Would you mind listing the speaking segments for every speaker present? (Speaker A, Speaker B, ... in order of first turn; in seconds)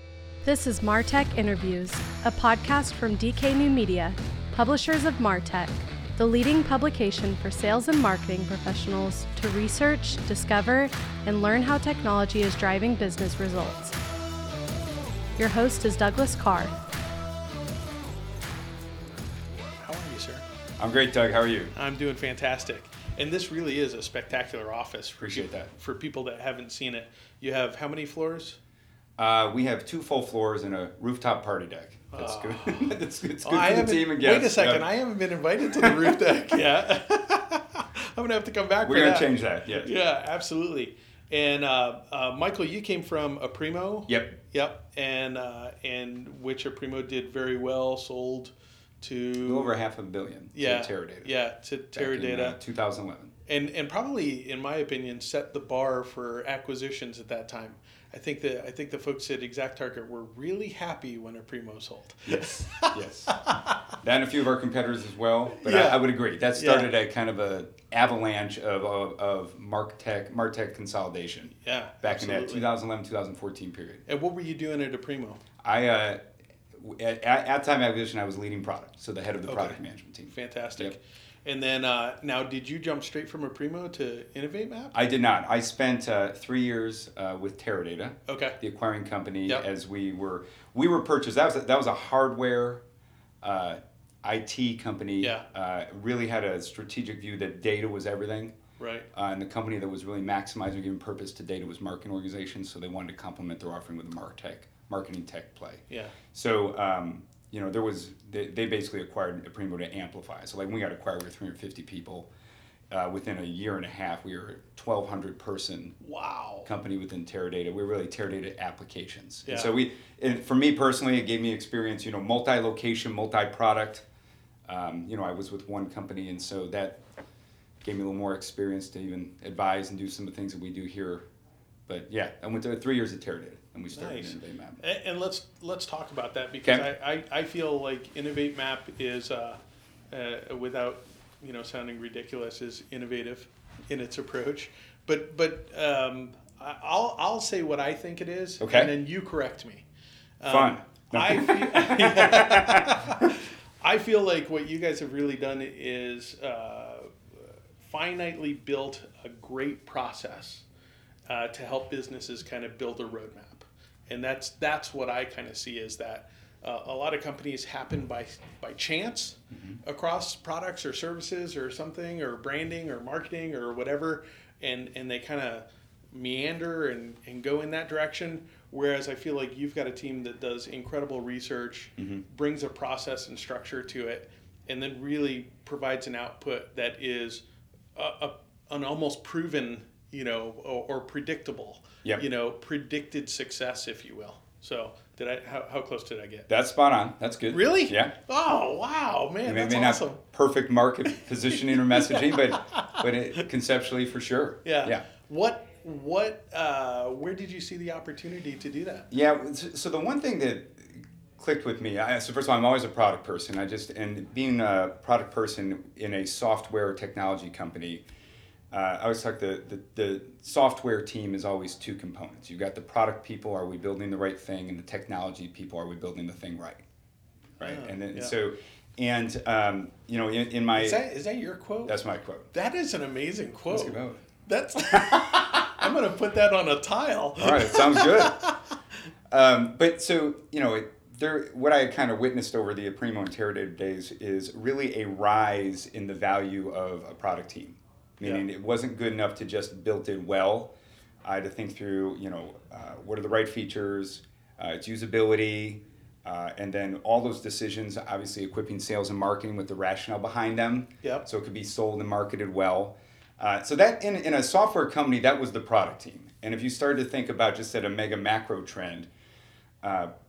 Speaker A: 0.4-14.0, 15.4-16.7
Speaker B: 19.6-20.4, 21.8-28.6, 32.1-49.8, 50.5-52.6, 53.5-63.8, 65.5-66.9, 71.6-72.7, 74.1-75.4, 79.5-85.0, 88.3-88.6, 98.8-99.1, 105.9-106.2, 116.0-116.7, 119.5-119.7, 133.9-139.6, 140.1-149.8, 150.4-160.7, 161.3-187.4, 187.9-196.5, 197.5-200.2, 201.6-203.0, 204.7-209.1, 227.6-228.3, 230.8-232.0, 232.5-238.6, 248.2-248.5
Speaker C: 20.8-21.7, 25.2-25.7, 29.2-34.9, 35.8-36.1, 38.9-39.9, 44.1-44.4, 49.4-51.3, 51.9-53.3, 62.3-63.4, 64.0-74.0, 75.6-76.2, 76.7-81.0, 84.9-92.8, 93.4-98.6, 99.1-112.3, 112.9-116.0, 116.7-124.0, 124.7-127.0, 127.8-131.2, 131.9-134.8, 148.6-148.9, 150.5-153.3, 169.5-169.8, 182.0-182.2, 196.5-198.2, 199.5-205.1, 209.1-218.0, 218.7-226.8, 227.6-231.0, 231.8-232.5, 233.7-234.2, 234.9-235.7, 237.4-238.4, 239.3-250.7, 251.2-269.1, 269.8-270.1